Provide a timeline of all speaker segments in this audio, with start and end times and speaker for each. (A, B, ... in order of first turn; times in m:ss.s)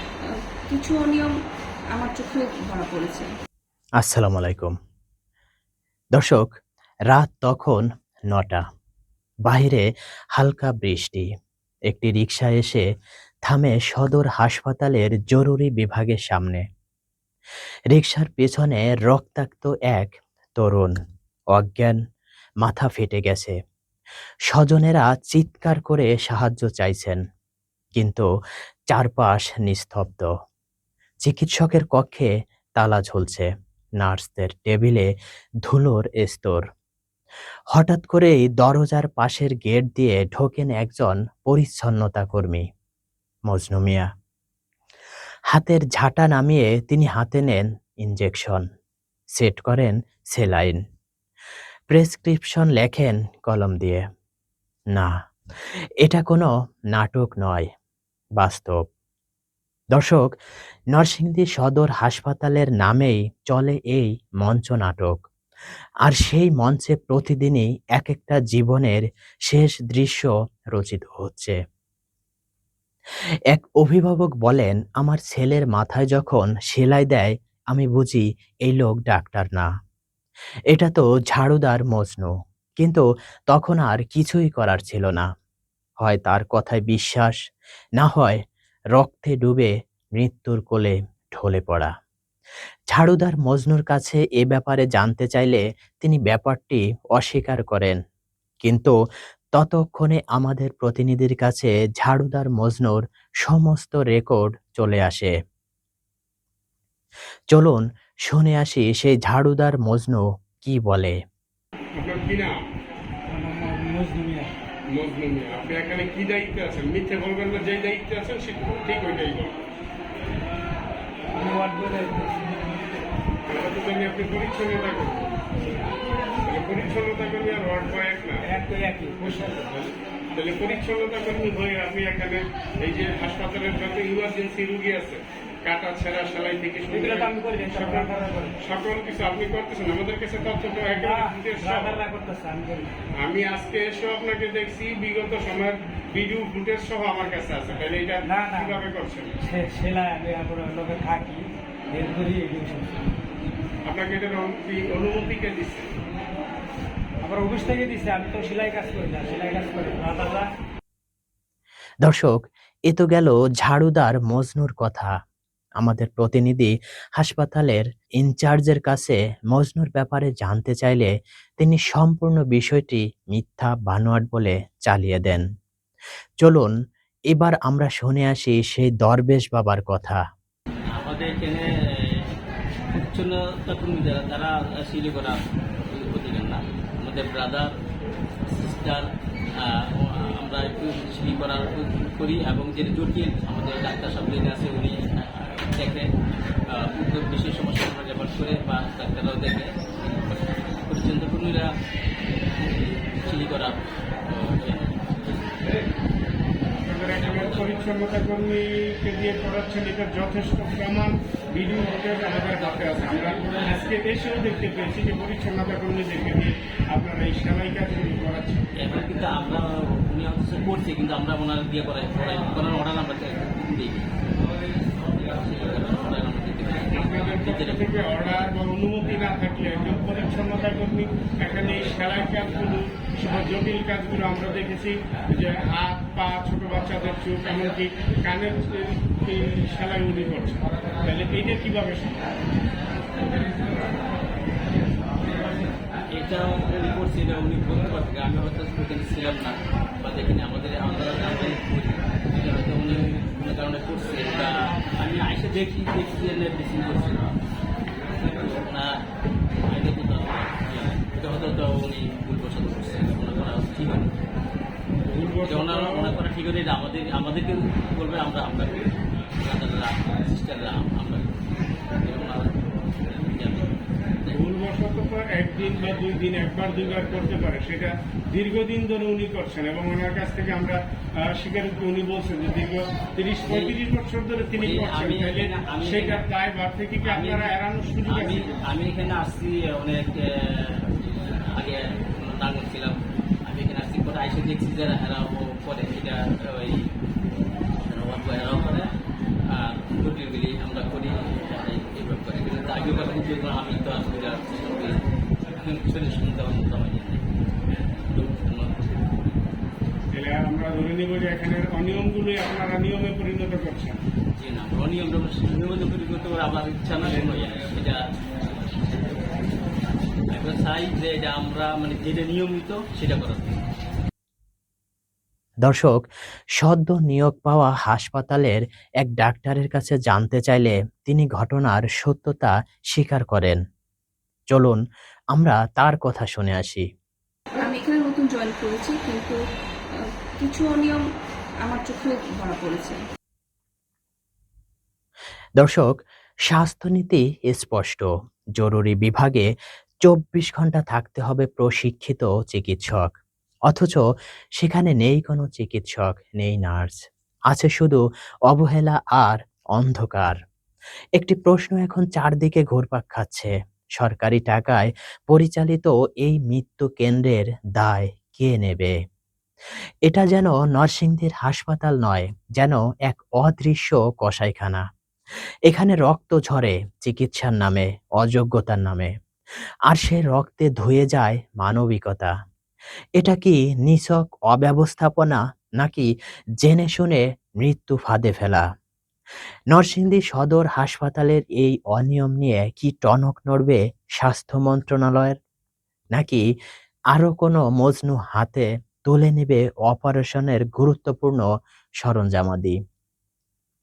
0:00.2-0:01.3 A
0:01.9-0:03.3 A
0:04.0-0:04.7 B
0:06.2-0:06.5 B
0:07.1-0:08.6 B
0:09.5-0:11.3 B
0:11.9-0:12.8 B
0:13.5-0:16.6 B
0:17.9-0:20.9 B
0:21.5-0:22.0 B
0:22.6-0:23.6 B
0:24.5-0:27.2 B
0:28.0-0:28.3 B
0:28.9-0:30.3 B
0:31.2-0:33.5 B
0:34.0-0:35.1 B
0:35.7-0:36.6 B
0:37.8-0:42.6 B
0:43.5-0:44.1 B
0:45.5-0:48.6 B
0:49.4-0:50.8 B
0:51.9-0:54.0 B
0:56.0-0:57.7 B
0:58.4-0:58.8 B
1:00.0-1:00.3 B
1:00.9-1:05.2 B
1:06.1-1:11.6 B
1:13.5-1:19.7 B
1:20.7-1:25.2 B
1:26.0-1:27.4 B
1:28.0-1:28.4 B
1:29.0-1:31.9 B
1:32.9-1:38.0 B
1:38.6-1:38.9 B
1:39.6-1:45.3 B
1:47.5-1:51.2 B
1:52.0-1:52.6 C
1:53.3-1:54.5 D
1:54.9-1:59.6 C
2:01.3-2:02.5 D
2:03.5-2:05.3 C
2:06.4-2:08.4 C
2:08.5-2:09.6 D
2:09.3-2:22.0 C
2:16.9-2:18.6 D
2:21.0-2:23.0 D
2:23.2-2:29.3 C
2:28.2-2:28.8 D
2:29.4-2:33.0 D
2:33.8-2:35.9 C
2:37.2-2:40.5 D
2:42.0-2:45.1 B
2:45.8-2:55.4 B
2:56.4-2:56.7 B
2:57.3-3:00.2 B
3:00.9-3:02.3 E
3:02.9-3:07.7 E
3:08.5-3:16.1 E
3:16.7-3:21.7 E
3:22.6-3:25.8 E
3:26.8-3:38.7 C
3:27.1-3:27.8 E
3:32.5-3:33.9 E
3:38.8-3:44.1 E
3:45.2-3:48.5 E
3:46.9-4:02.3 C
4:06.1-4:17.4 E
4:18.3-4:19.0 E
4:19.7-4:24.1 E
4:25.1-4:26.2 C
4:25.4-4:31.4 E
4:32.0-4:34.4 E
4:34.3-4:48.6 C
4:43.5-4:43.8 E
4:44.5-4:46.2 E
4:47.0-4:47.5 E
4:48.1-4:56.9 E
4:57.8-4:58.9 E
4:59.5-5:04.9 E
5:05.5-5:07.2 E
5:08.1-5:09.1 E
5:10.1-5:14.0 C
5:14.4-5:19.4 E
5:20.3-5:23.6 E
5:25.7-5:26.0 B
5:26.6-5:33.6 B
5:34.5-5:34.8 B
5:35.4-5:36.8 B
5:37.6-5:39.4 A
5:40.0-5:41.0 A
5:41.6-5:43.0 A
5:45.6-5:45.9 B
5:46.5-5:49.5 B
5:50.1-5:53.1 B
5:53.7-5:54.0 B
5:54.6-5:57.0 B
5:57.5-6:00.4 B
6:01.2-6:08.9 B
6:10.1-6:14.8 B
6:15.7-6:19.1 B
6:19.9-6:22.3 B
6:23.2-6:26.1 B
6:26.6-6:28.6 B
6:29.7-6:35.4 B
6:36.2-6:36.4 B
6:37.1-6:41.5 B
6:42.0-6:42.8 B